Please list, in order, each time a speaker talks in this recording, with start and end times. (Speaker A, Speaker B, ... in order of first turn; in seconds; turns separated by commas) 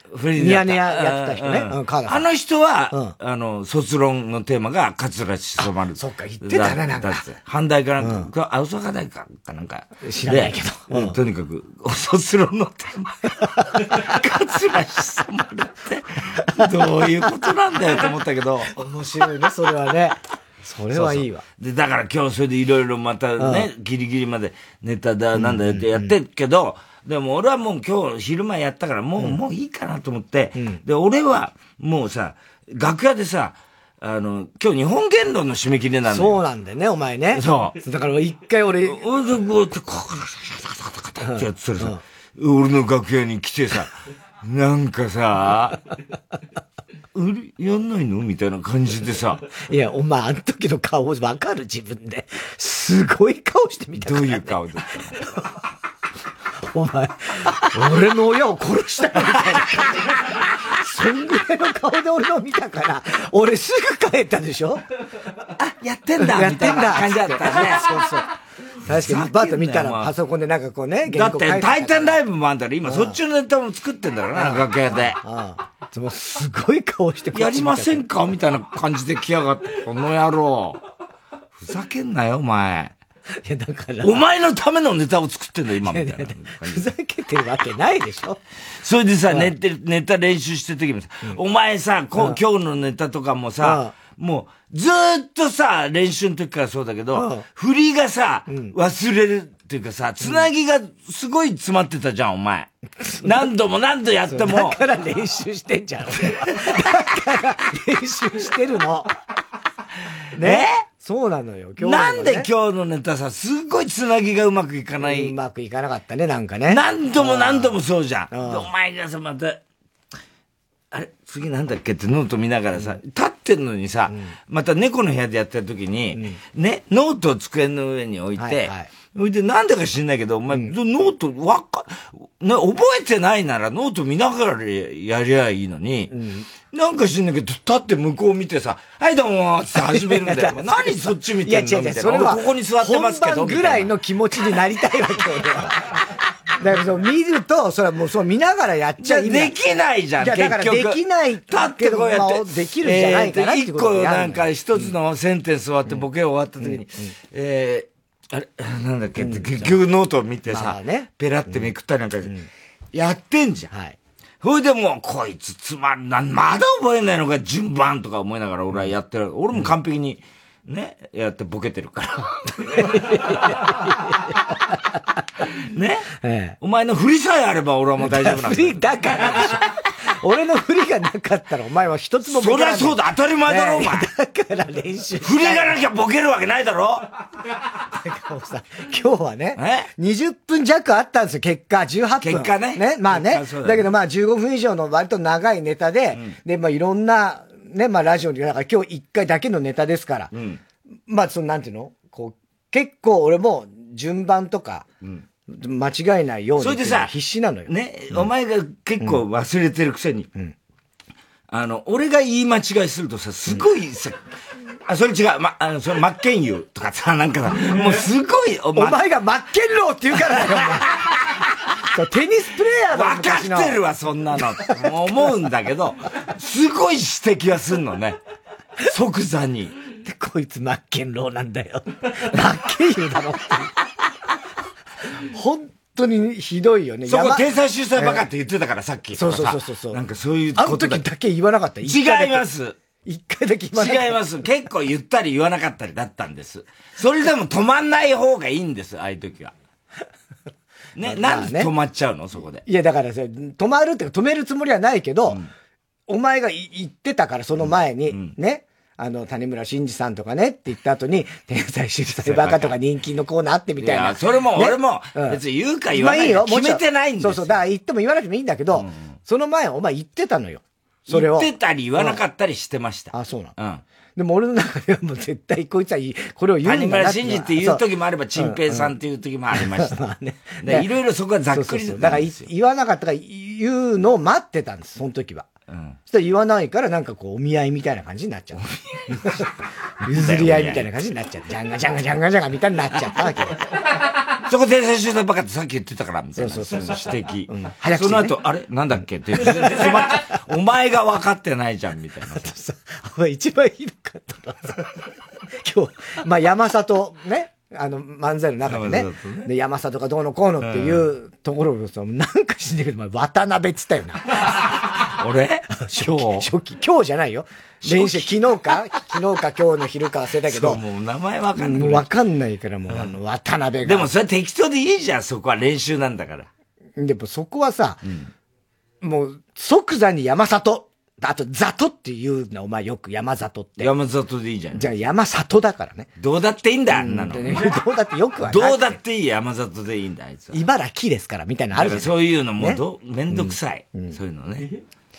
Speaker A: 0.1-18.7, Speaker B: 0.4-2.2, Speaker B: 6.0-7.2, Speaker B: 8.0-8.3, Speaker B: 10.0-11.2, Speaker B: 18.7-21.4, Speaker A: 20.9-36.4, Speaker B: 23.4-23.7, Speaker B: 25.4-26.1, Speaker B: 30.6-30.8, Speaker B: 36.1-39.0, Speaker A: 37.3-37.8, Speaker A: 38.8-43.9, Speaker B: 41.2-42.0, Speaker A: 44.4-45.8, Speaker A: 47.1-49.4, Speaker B: 49.6-54.6, Speaker A: 54.0-55.1, Speaker B: 56.7-60.0, Speaker B: 60.6-64.8, Speaker A: 65.6-68.1, Speaker B: 66.2-68.3, Speaker B: 68.8-72.2, Speaker A: 68.9-70.1, Speaker A: 71.0-75.2, Speaker B: 72.8-73.2, Speaker B: 74.3-78.0, Speaker A: 77.3-80.8, Speaker A: 81.5-82.9, Speaker B: 83.4-84.2, Speaker A: 84.0-86.9, Speaker B: 85.9-88.4, Speaker A: 88.8-102.7, Speaker B: 93.6-93.9, Speaker B: 97.1-97.4, Speaker B: 98.5-98.7, Speaker B: 103.0-103.3, Speaker A: 103.2-104.8, Speaker B: 104.3-109.1, Speaker A: 106.2-106.8, Speaker B: 110.3-112.5, Speaker A: 110.4-110.8, Speaker A: 111.8-115.3, Speaker B: 115.0-117.8, Speaker A: 116.7-119.6, Speaker B: 118.3-118.7, Speaker A: 120.9-136.1, Speaker B: 124.1-124.3, Speaker B: 128.4-128.9, Speaker B: 136.1-136.5, Speaker A: 136.7-143.9, Speaker B: 139.7-145.8, Speaker B: 146.6-149.5, Speaker A: 149.0-162.3, Speaker B: 150.2-154.8, Speaker B: 156.6-157.1, Speaker B: 159.2-159.7, Speaker B: 160.5-161.7, Speaker A: 162.9-163.7, Speaker B: 163.7-164.0, Speaker A: 164.4-172.9, Speaker B: 172.7-174.8, Speaker A: 175.7-176.1, Speaker B: 176.2-176.6, Speaker A: 176.6-178.8, Speaker B: 178.0-185.8, Speaker A: 182.2-184.1, Speaker A: 185.2-187.1, Speaker B: 188.0-200.3, Speaker A: 189.6-189.9, Speaker A: 192.2-193.9, Speaker A: 200.3-200.6, Speaker B: 201.1-204.9, Speaker B: 205.5-208.2, Speaker A: 206.6-207.1, Speaker A: 207.7-210.3, Speaker A: 211.5-214.2, Speaker A: 214.8-219.0, Speaker B: 218.8-220.9, Speaker A: 220.3-220.8, Speaker B: 221.9-223.8, Speaker A: 222.9-228.2, Speaker A: 228.8-229.7, Speaker B: 230.0-233.7, Speaker B: 235.3-237.4, Speaker A: 237.1-241.0, Speaker B: 238.0-238.2, Speaker B: 239.2-240.0, Speaker B: 240.6-242.4, Speaker A: 241.8-242.8, Speaker B: 243.0-244.2, Speaker A: 243.7-249.5, Speaker A: 250.9-252.6, Speaker B: 251.0-251.7, Speaker B: 252.7-255.4, Speaker B: 256.1-265.4, Speaker A: 262.2-262.7, Speaker A: 263.8-267.6, Speaker B: 265.9-272.2, Speaker A: 268.7-269.1, Speaker A: 271.1-273.8, Speaker B: 273.1-273.5, Speaker B: 274.1-277.8, Speaker A: 276.6-280.0, Speaker B: 278.4-278.9, Speaker B: 279.6-280.9, Speaker A: 280.6-282.4, Speaker B: 281.5-285.5, Speaker A: 285.7-286.0, Speaker B: 286.1-288.6, Speaker A: 288.6-289.2, Speaker A: 290.0-290.9, Speaker B: 290.0-293.6, Speaker A: 294.2-302.5, Speaker B: 296.4-298.4, Speaker B: 302.4-304.9, Speaker B: 305.6-314.5, Speaker A: 308.6-309.5, Speaker A: 310.6-311.1, Speaker A: 315.0-316.5, Speaker B: 315.8-320.8, Speaker A: 317.8-318.8, Speaker A: 320.5-322.1, Speaker B: 321.6-324.1, Speaker A: 323.8-326.5, Speaker B: 327.0-328.0, Speaker A: 328.0-328.3, Speaker B: 329.0-333.9, Speaker A: 333.8-334.9, Speaker B: 334.7-336.1, Speaker A: 336.2-337.7, Speaker B: 336.9-339.0, Speaker A: 338.4-340.6, Speaker B: 340.5-344.2, Speaker A: 341.7-344.7